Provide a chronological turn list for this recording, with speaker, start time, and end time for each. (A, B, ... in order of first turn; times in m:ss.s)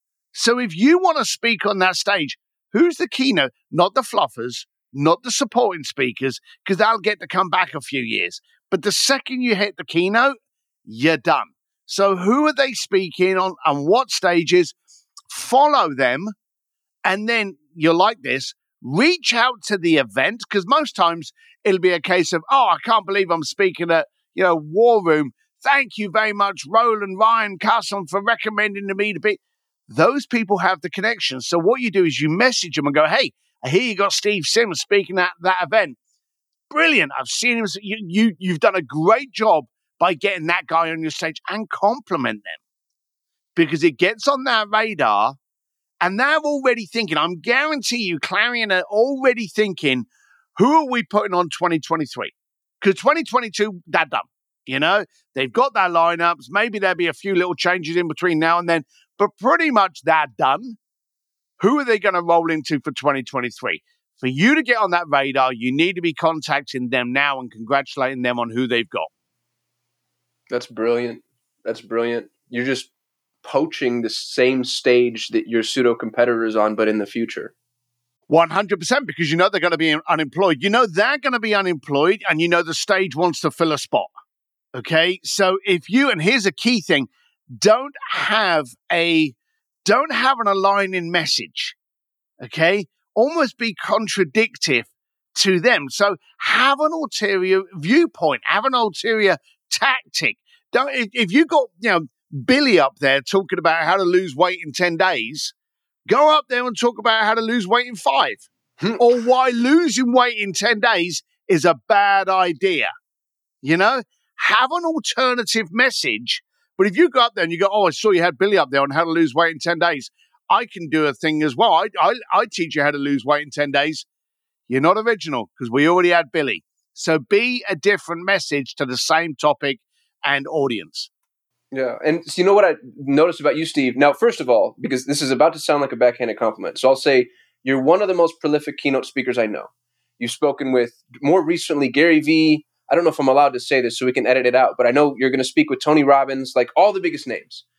0:00.3-0:10.3 A
0:10.8-0:14.7 A
0:15.3-0:16.3 A
0:17.0-0:36.0 A
0:36.7-0:42.6 A
0:43.6-0:45.4 A
0:46.0-1:00.8 A
1:01.6-1:09.1 A
1:10.5-1:12.9 B
1:13.4-1:17.5 B
1:18.3-1:24.1 A
1:24.7-1:31.7 A
1:32.4-1:45.5 A
1:46.1-1:52.9 A
1:48.8-1:49.0 B
1:53.6-2:04.1 A
2:04.7-2:11.1 A
2:11.7-2:27.6 B